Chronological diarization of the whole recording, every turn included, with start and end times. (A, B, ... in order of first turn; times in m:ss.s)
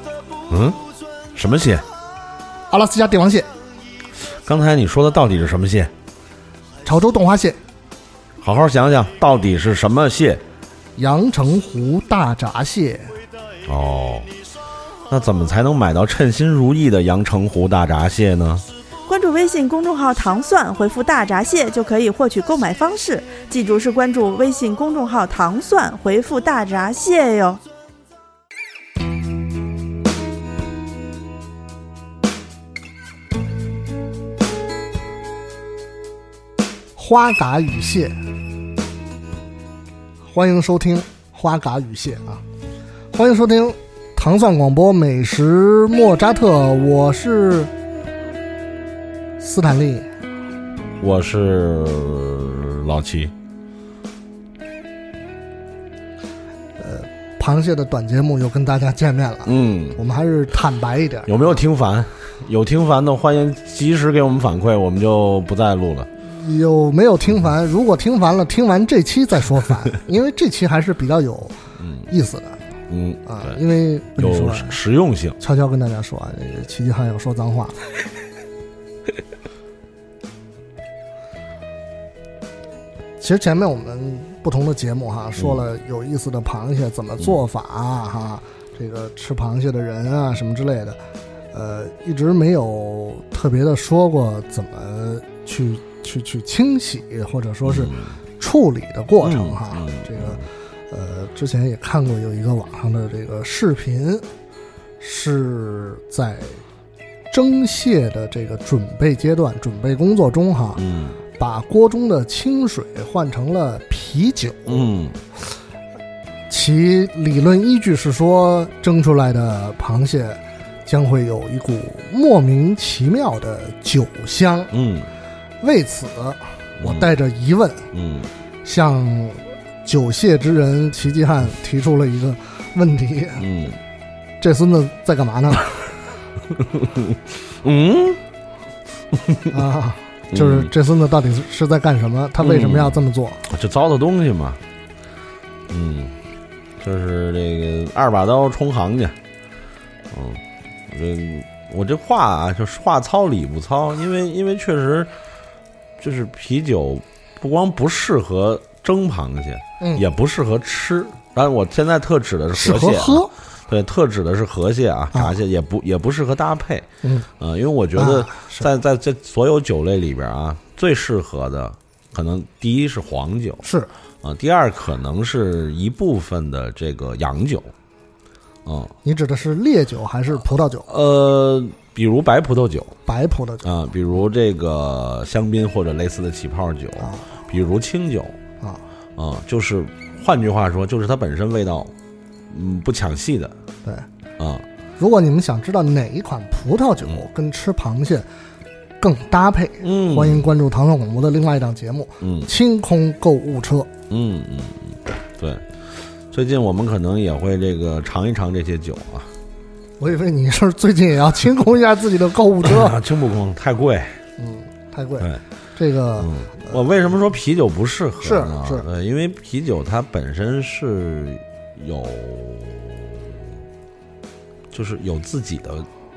0:00.5-0:00.8 A
0:01.3-0:01.8 A
0:02.7-0:03.5 B
0:04.3-0:05.9 A
0:06.8-0:07.6 B
0:08.4-0:10.4 A
0:11.0-0:13.1 B
0:13.6-0:14.3 A
0:15.1-0:18.6 A
0:19.1-0:27.6 C
0:36.9-0:38.2 B
0:40.2-0:42.4 B
0:43.1-0:47.7 B
0:49.4-0:50.1 B
0:51.0-0:53.3 A
0:56.8-1:01.6 B
0:59.4-1:00.0 A
1:01.2-1:06.1 A
1:06.2-1:11.6 B
1:11.8-1:12.1 A
1:12.1-1:12.6 B
1:12.9-1:13.6 A
1:13.2-1:14.8 B
1:14.2-1:15.4 A
1:15.4-1:17.8 B
1:23.2-1:31.0 B
1:25.4-1:25.7 A
1:31.5-1:44.2 B
1:37.6-1:38.2 A
1:39.2-1:40.4 A
1:45.0-1:46.6 B
1:47.3-1:50.8 B
1:50.8-1:51.2 A
1:51.4-1:54.9 B
1:54.6-1:55.2 A
1:56.5-2:04.7 B
2:04.7-2:05.1 A
2:05.6-2:07.9 B
2:06.8-2:07.1 A
2:07.9-2:08.3 A
2:08.6-2:13.4 B
2:13.4-2:13.8 A
2:14.4-2:15.9 B
2:16.7-2:18.2 A
2:19.1-2:19.5 A
2:19.5-2:23.4 B
2:20.3-2:20.7 A
2:22.4-2:24.6 A
2:25.7-2:26.1 A
2:26.8-2:29.1 A
2:30.1-2:35.1 A
2:36.0-2:46.9 A
2:42.5-2:43.3 B
2:47.0-2:47.3 B
2:47.4-2:53.6 A
2:48.0-2:48.7 B
2:53.6-2:53.9 B
2:54.2-2:57.7 A
2:58.6-2:58.9 A
2:59.0-3:00.9 B
3:00.9-3:03.0 A
3:03.0-3:03.7 B
3:03.6-3:08.4 A
3:07.0-3:07.2 B
3:09.2-3:11.9 A
3:12.5-3:13.5 A
3:14.4-3:14.6 A
3:15.0-3:18.2 B
3:19.0-3:23.9 B
3:19.8-3:20.5 A
3:22.2-3:22.5 A
3:24.1-3:25.6 A
3:26.3-3:29.3 A
3:30.0-3:33.0 B
3:32.6-3:34.2 A
3:34.4-3:36.8 B
3:36.2-3:43.5 A
3:38.2-3:38.8 B
3:44.7-3:45.9 A